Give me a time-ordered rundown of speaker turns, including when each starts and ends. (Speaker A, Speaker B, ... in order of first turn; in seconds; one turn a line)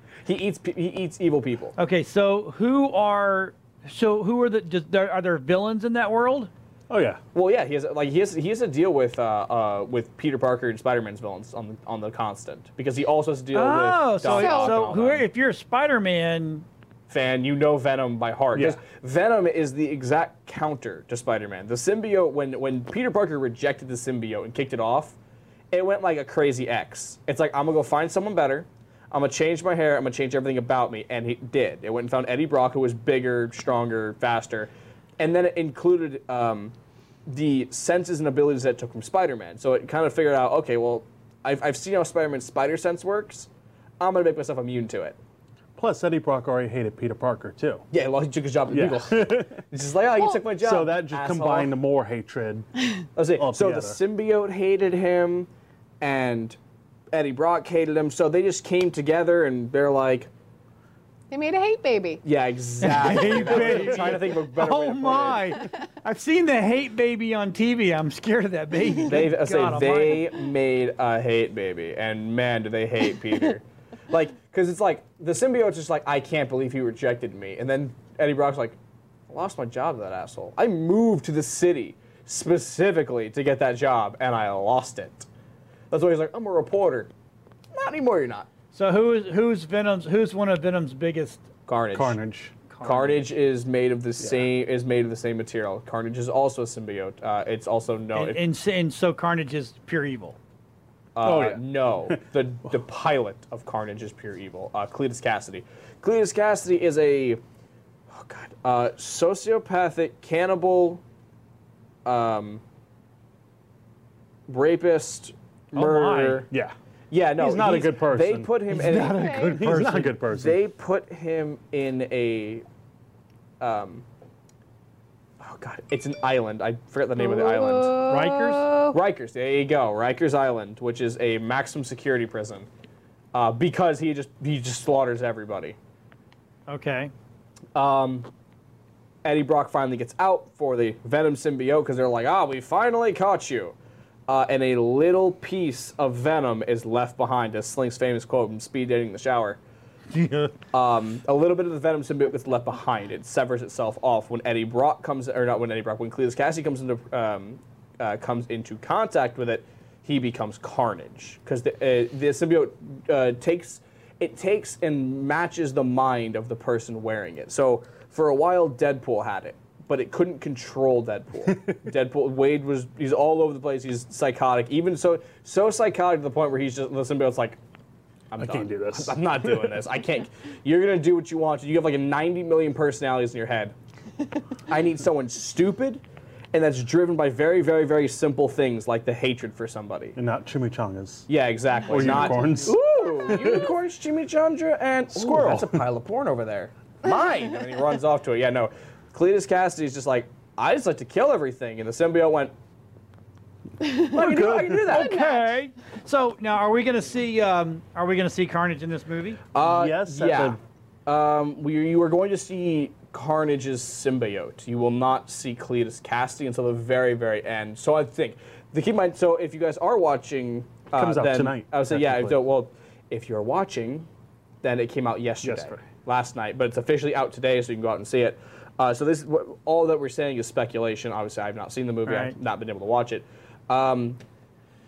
Speaker A: 0.2-1.8
Speaker B: 1.8-6.5
Speaker C: 6.9-7.2
Speaker A: 7.3-15.3
Speaker B: 13.5-16.6
Speaker D: 14.3-14.8
Speaker A: 17.1-25.1
Speaker A: 25.7-36.7
Speaker A: 37.3-43.5
Speaker A: 44.0-45.2
Speaker C: 45.8-47.8
Speaker A: 47.9-51.8
Speaker C: 48.7-49.6
Speaker C: 50.5-52.7
Speaker A: 53.1-55.5
Speaker C: 53.3-54.0
Speaker A: 56.0-56.6
Speaker A: 57.1-60.3
Speaker D: 61.3-62.2
Speaker A: 62.2-65.5
Speaker B: 62.8-70.3
Speaker C: 63.2-63.9
Speaker A: 69.0-78.8
Speaker A: 79.3-85.3
Speaker A: 85.9-87.1
Speaker A: 87.7-88.5
Speaker B: 88.7-91.4
Speaker A: 91.7-92.2
Speaker C: 91.9-92.5
Speaker B: 92.7-93.3
Speaker A: 92.8-98.4
Speaker C: 94.2-94.5
Speaker B: 98.1-100.4
Speaker A: 101.1-107.4
Speaker C: 101.2-102.2
Speaker A: 108.1-111.0
Speaker A: 112.0-112.6
Speaker A: 114.5-116.5
Speaker B: 115.7-116.5
Speaker A: 117.1-119.3
Speaker C: 117.3-120.6
Speaker B: 118.7-120.2
Speaker D: 119.0-119.6
Speaker A: 120.3-122.6
Speaker A: 123.6-124.0
Speaker A: 125.4-128.0
Speaker D: 127.2-129.0
Speaker B: 128.1-128.7
Speaker A: 128.9-132.7
Speaker A: 133.3-135.8
Speaker B: 136.7-137.1
Speaker A: 137.7-138.3
Speaker A: 139.2-143.8
Speaker A: 144.3-149.6
Speaker B: 150.1-150.5
Speaker A: 150.7-177.6
Speaker C: 171.5-171.8
Speaker A: 178.3-183.7
Speaker C: 178.4-179.8
Speaker A: 184.7-186.0
Speaker A: 186.5-190.2
Speaker C: 190.2-191.3
Speaker A: 191.3-202.5
Speaker C: 191.8-193.7
Speaker C: 195.1-195.8
Speaker D: 203.8-204.2
Speaker C: 203.9-205.0
Speaker A: 204.1-205.1
Speaker B: 204.9-209.4
Speaker D: 204.9-205.5
Speaker A: 209.5-224.1
Speaker C: 209.6-210.6
Speaker C: 220.9-222.4
Speaker A: 224.6-234.2
Speaker C: 225.4-225.8
Speaker B: 232.1-232.3